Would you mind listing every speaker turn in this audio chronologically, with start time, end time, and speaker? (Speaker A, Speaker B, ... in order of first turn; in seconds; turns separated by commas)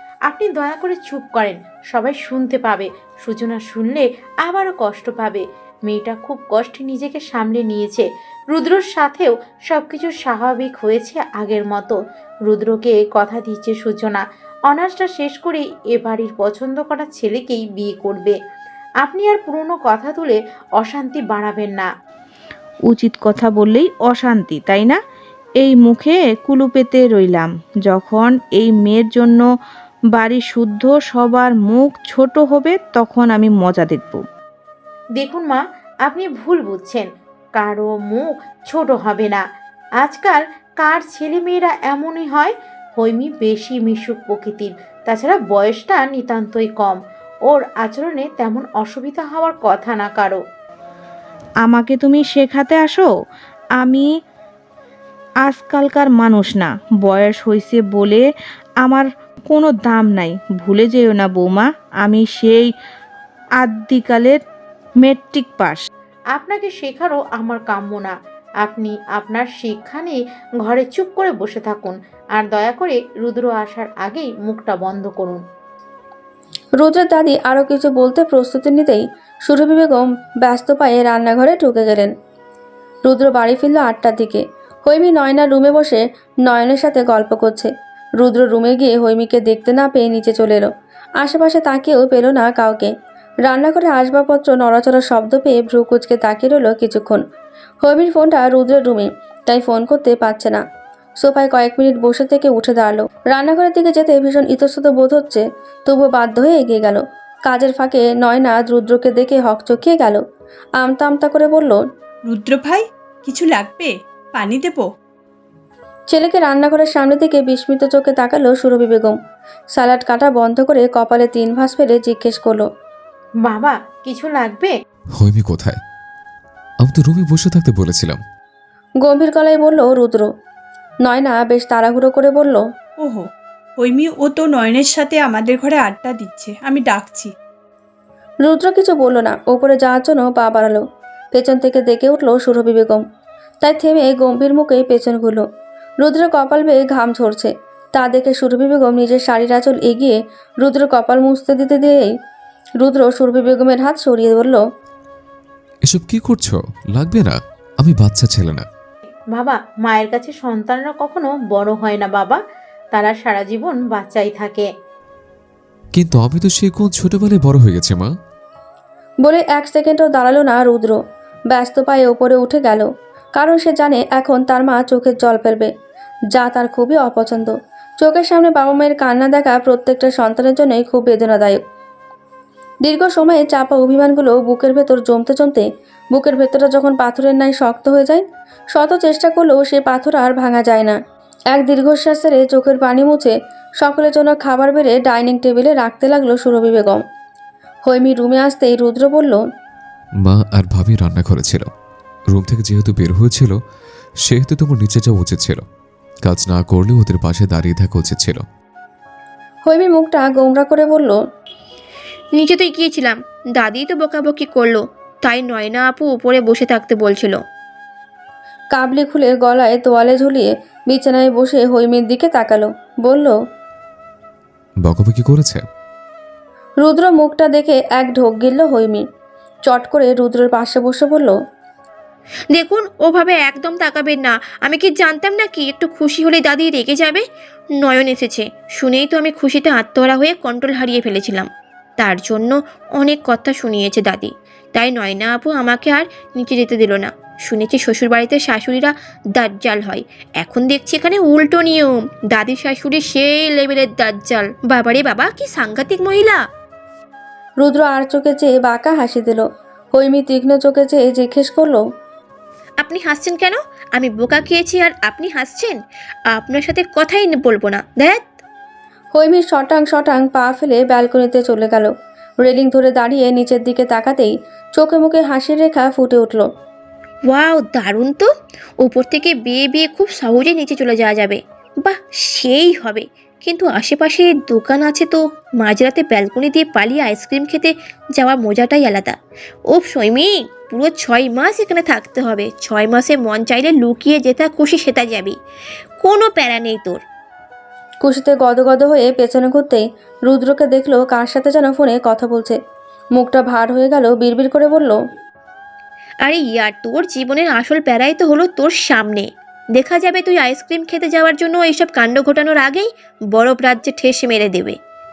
Speaker A: 0.3-11.9, Speaker A: 12.5-18.4, Speaker A: 19.0-21.9, Speaker B: 22.9-25.0, Speaker B: 25.6-29.4, Speaker B: 30.1-34.2, Speaker A: 35.2-39.4, Speaker A: 40.0-50.4, Speaker B: 51.6-53.1, Speaker B: 53.8-54.0, Speaker B: 55.4-58.2, Speaker B: 58.8-62.7, Speaker B: 63.6-64.4, Speaker B: 65.0-65.8, Speaker A: 66.3-75.4, Speaker C: 76.8-82.1, Speaker C: 83.0-90.7, Speaker C: 91.2-92.9, Speaker C: 93.4-97.2, Speaker C: 97.8-100.6, Speaker C: 101.2-110.2, Speaker C: 110.8-111.8, Speaker D: 112.3-114.9, Speaker C: 116.1-119.2, Speaker C: 119.8-122.6, Speaker A: 123.4-124.7, Speaker E: 125.2-125.8, Speaker E: 126.8-128.2, Speaker C: 129.0-130.3, Speaker C: 131.0-132.6, Speaker D: 133.8-137.3, Speaker C: 138.4-140.8, Speaker C: 141.3-143.0, Speaker C: 143.6-145.4, Speaker C: 146.0-152.1, Speaker C: 152.8-154.6, Speaker E: 155.8-158.7, Speaker A: 159.3-162.4, Speaker A: 162.9-164.7, Speaker E: 165.9-168.1, Speaker C: 169.2-171.0, Speaker C: 171.5-175.7, Speaker C: 176.3-181.6, Speaker C: 182.8-191.0, Speaker C: 191.5-197.0, Speaker C: 197.9-199.4, Speaker E: 200.2-201.7, Speaker E: 202.3-203.5, Speaker E: 204.2-205.6, Speaker E: 206.2-208.4, Speaker C: 209.7-211.1, Speaker F: 212.3-217.4, Speaker C: 218.7-223.3, Speaker E: 224.8-225.6, Speaker C: 226.8-229.0, Speaker C: 229.7-231.3, Speaker F: 232.5-237.2, Speaker F: 237.8-256.4, Speaker C: 257.6-261.8, Speaker F: 262.8-265.8, Speaker F: 266.3-268.2, Speaker C: 269.1-271.9, Speaker C: 272.4-276.4, Speaker F: 277.3-289.1, Speaker F: 289.7-295.4, Speaker F: 296.0-297.0, Speaker C: 298.0-302.6, Speaker C: 303.2-305.0, Speaker F: 306.2-314.8